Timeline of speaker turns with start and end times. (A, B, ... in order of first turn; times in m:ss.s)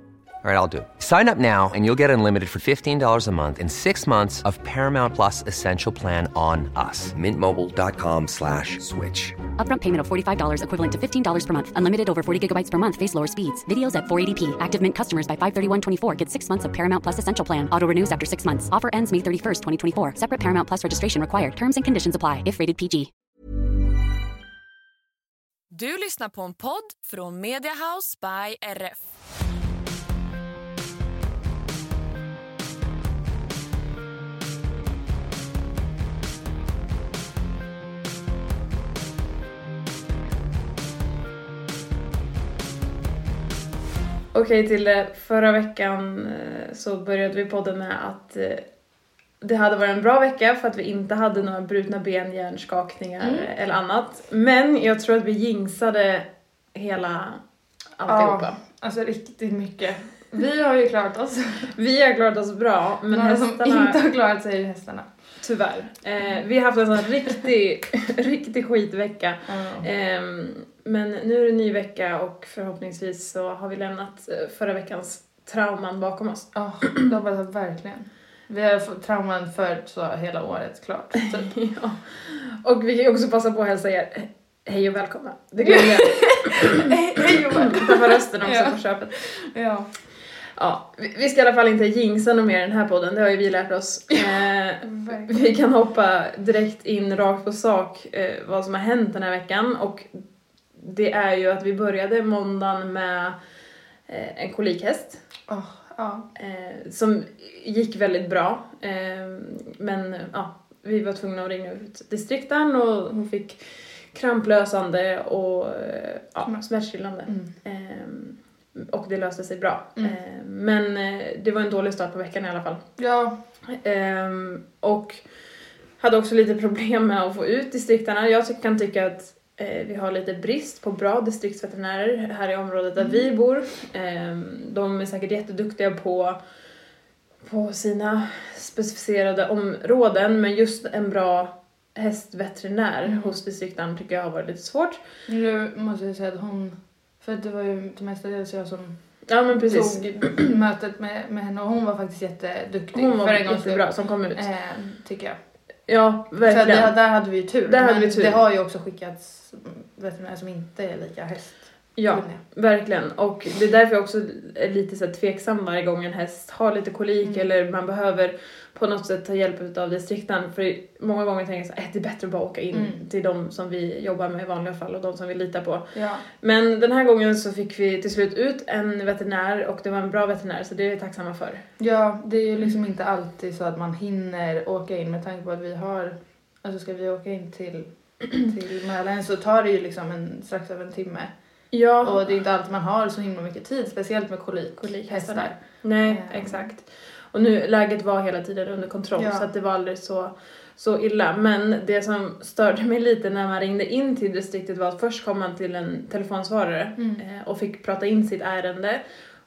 0:00.4-0:09.4 A
0:09.6-0:23.1 B
0:25.7-0:29.1 C
0:44.3-0:48.7 D
0:49.4-0:57.4 D
0:53.2-0:53.5 E
0:58.0-0:58.6 D
0:58.1-1:01.8 E
1:01.8-1:04.0 D
1:03.1-1:05.5 E
1:05.4-1:17.0 D
1:06.2-1:06.4 E
1:09.4-1:09.9 E
1:16.5-1:21.7 E
1:21.6-1:26.7 D
1:25.6-1:30.0 E
1:27.2-1:29.4 D
1:30.5-1:40.2 D
1:34.8-1:35.6 E
1:40.7-1:43.4 D
1:44.1-1:45.2 D
1:45.5-1:46.3 E
1:46.4-2:03.0 D
1:56.4-1:57.5 E
2:03.0-2:03.4 E
2:03.7-2:16.5 D
2:13.0-2:13.2 E
2:17.4-2:25.0 D
2:23.0-2:23.4 E
2:25.3-2:35.7 E
2:29.3-2:30.4 D
2:32.9-2:34.5 D
2:35.9-2:38.4 D
2:36.4-2:42.4 E
2:42.0-3:01.7 D
2:47.2-2:47.5 E
2:52.7-2:53.0 E
2:55.9-2:56.2 E
3:01.8-3:16.7 E
3:11.7-3:12.4 D
3:14.8-3:29.1 D
3:19.2-3:19.5 E
3:27.0-3:27.2 E